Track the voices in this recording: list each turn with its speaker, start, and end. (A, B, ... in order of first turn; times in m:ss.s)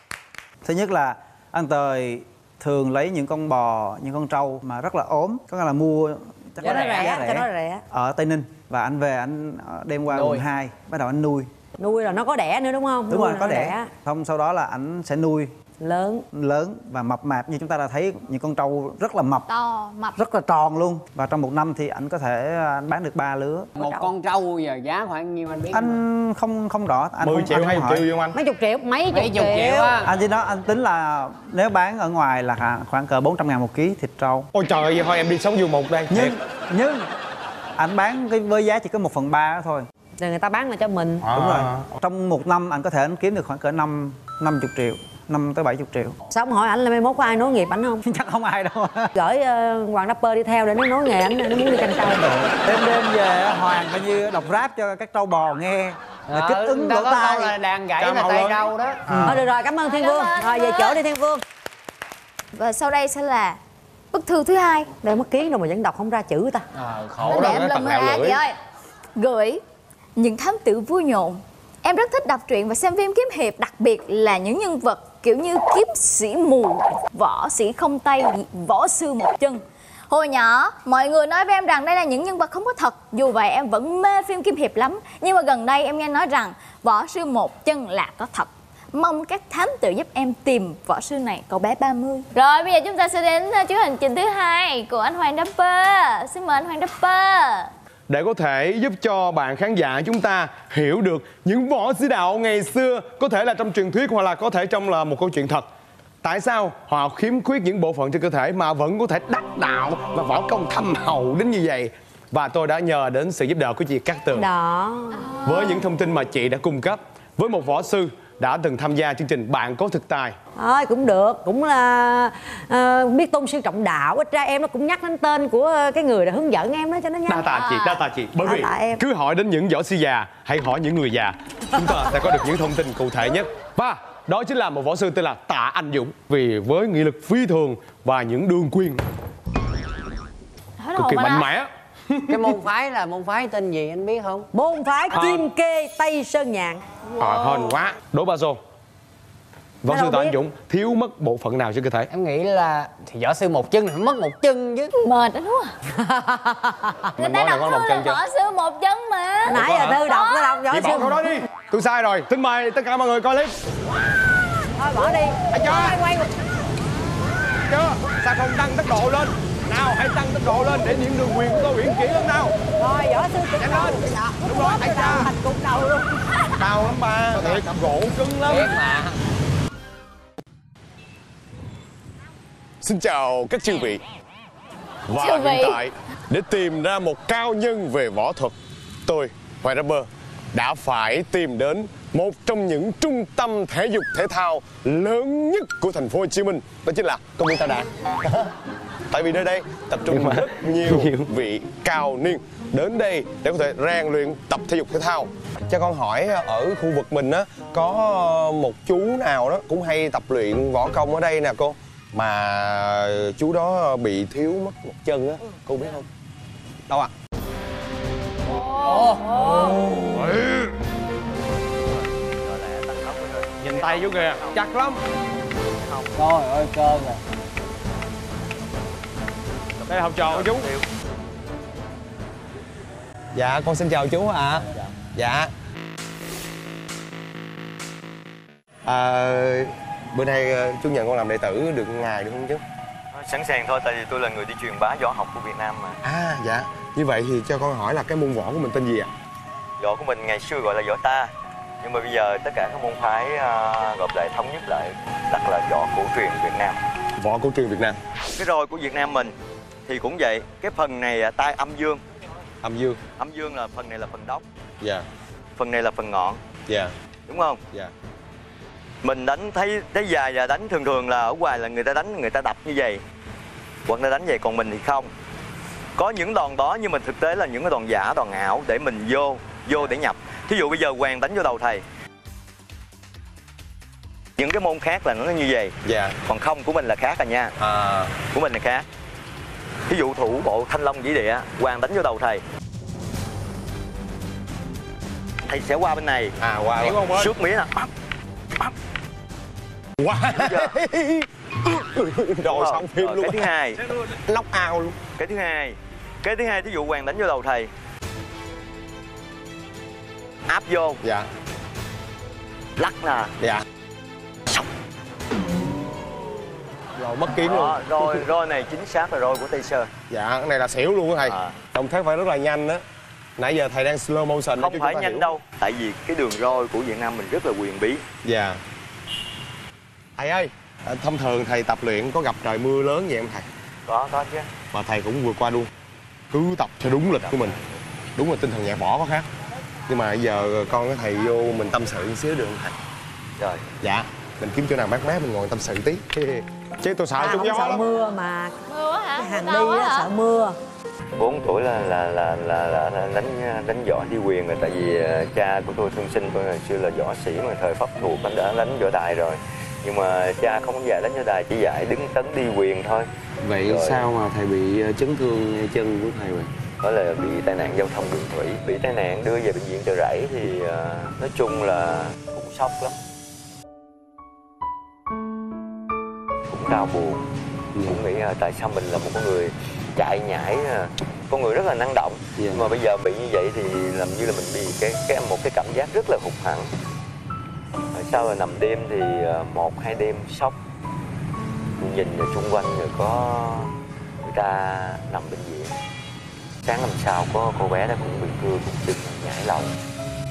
0:00.6-0:11.5 A
0:06.6-0:07.2 B
0:06.6-0:07.8 C
0:10.1-0:10.4 B
0:11.8-0:13.9 C
0:13.1-0:15.5 A
0:15.8-0:16.2 C
0:16.3-0:19.4 A
0:19.5-0:20.2 D
0:20.2-0:23.7 A
0:23.8-0:26.0 B
0:23.8-0:24.1 C
0:25.7-0:28.1 A
0:27.2-0:28.4 E
0:28.3-0:30.0 C
0:29.1-0:30.1 B
0:30.0-0:34.5 A
0:34.5-0:36.3 E
0:36.1-0:37.1 A
0:37.8-0:39.8 A
0:40.2-0:41.3 C
0:41.3-0:41.8 E
0:41.3-0:46.2 A
0:46.3-0:48.0 C
0:48.0-0:49.1 A
0:49.1-0:52.5 C
0:52.6-0:57.5 A
0:56.3-0:59.1 B
0:58.0-0:59.4 E
0:59.1-0:59.4 A
0:59.2-1:01.4 C
0:59.8-1:01.0 D
1:02.5-1:03.6 D
1:04.1-1:04.9 D
1:05.0-1:06.6 C
1:06.7-1:07.5 B
1:07.2-1:08.4 E
1:07.3-1:08.6 D
1:09.2-1:09.6 D
1:10.2-1:37.7 D
1:38.1-1:45.6 E
1:46.2-1:54.5 E
1:54.3-1:55.3 C
1:55.2-1:55.8 D
1:55.4-2:00.4 E
2:00.6-2:07.5 C
2:07.3-2:19.0 E
2:07.3-2:08.0 D
2:08.4-2:09.0 C
2:11.8-2:12.1 C
2:20.8-2:21.5 D
2:21.0-2:22.5 E
2:22.3-2:24.5 B
2:24.5-2:26.8 C
2:25.1-2:25.4 E
2:27.1-2:27.8 D
2:27.2-2:28.6 E
2:29.8-2:32.1 E
2:29.9-2:30.4 C
2:32.1-2:34.9 B
2:35.0-2:35.7 D
2:36.0-2:37.1 C
2:37.2-2:38.2 E
2:37.2-2:40.6 D
2:39.5-2:41.4 C
2:39.5-2:40.0 E
2:40.7-2:43.5 E
2:44.8-2:46.3 C
2:45.5-2:46.0 E
2:47.7-2:52.5 E
2:52.8-2:56.1 C
2:53.6-2:55.3 E
2:56.6-2:58.7 E
2:58.4-2:59.1 B
3:02.8-3:04.0 E
3:05.1-3:08.5 E
3:05.2-3:05.8 D
3:09.0-3:18.4 E
3:19.1-3:36.0 E
3:20.1-3:20.4 F
3:38.5-3:39.8 D
3:38.8-3:40.4 B
3:40.1-3:40.7 E
3:41.9-3:44.6 G
3:43.6-3:45.0 E
3:45.8-3:46.1 G
3:46.1-3:47.2 B
3:49.8-3:50.8 G
3:49.9-3:50.7 E
3:53.3-3:55.5 E
3:58.8-4:02.6 E
4:03.1-4:06.0 G
4:06.0-4:09.1 E
4:09.8-4:11.3 G
4:11.8-4:16.8 G
4:17.2-4:18.0 E
4:18.4-4:19.3 G
4:19.9-4:22.0 G
4:22.6-4:23.0 E
4:23.2-4:24.4 G
4:25.6-4:26.4 G
4:26.7-4:26.9 E
4:27.3-4:27.6 G
4:29.0-4:33.0 G
4:33.8-4:35.1 G
4:36.0-4:41.8 G
4:44.4-4:47.5 G
4:45.8-4:46.2 E
4:47.6-4:48.2 E
4:48.2-4:48.8 G
4:49.9-4:52.4 G
4:55.4-4:57.9 G
4:56.4-4:57.4 E
5:00.0-5:05.0 E
5:00.3-5:00.7 G
5:02.4-5:03.8 G
5:05.2-5:07.7 G
5:10.5-5:11.0 G
5:11.0-5:11.3 E
5:12.8-5:13.3 G
5:17.0-5:18.2 E
5:17.4-5:19.9 G
5:20.1-5:22.8 E
5:21.2-5:21.6 G
5:23.4-5:25.3 E
5:24.6-5:28.0 G
5:28.2-5:28.6 E
5:30.2-5:33.4 E
5:33.8-5:34.6 G
5:34.7-5:35.7 E
5:36.3-5:37.6 E
5:36.9-5:37.8 G
5:38.2-5:39.3 E
5:39.9-5:42.7 E
5:43.4-5:43.6 G
5:43.8-5:47.8 E
5:47.1-5:48.5 C
5:48.7-5:50.1 D
5:49.2-5:50.6 C
5:51.1-6:03.1 G
6:03.4-6:06.5 F
6:03.6-6:04.1 G
6:06.8-6:13.0 G
6:16.5-6:17.2 G
6:17.7-6:18.0 F
6:17.8-6:26.7 G
6:22.4-6:22.8 F
6:27.9-6:30.6 G
6:31.8-6:33.7 G
6:34.2-6:35.7 G
6:36.6-6:39.8 G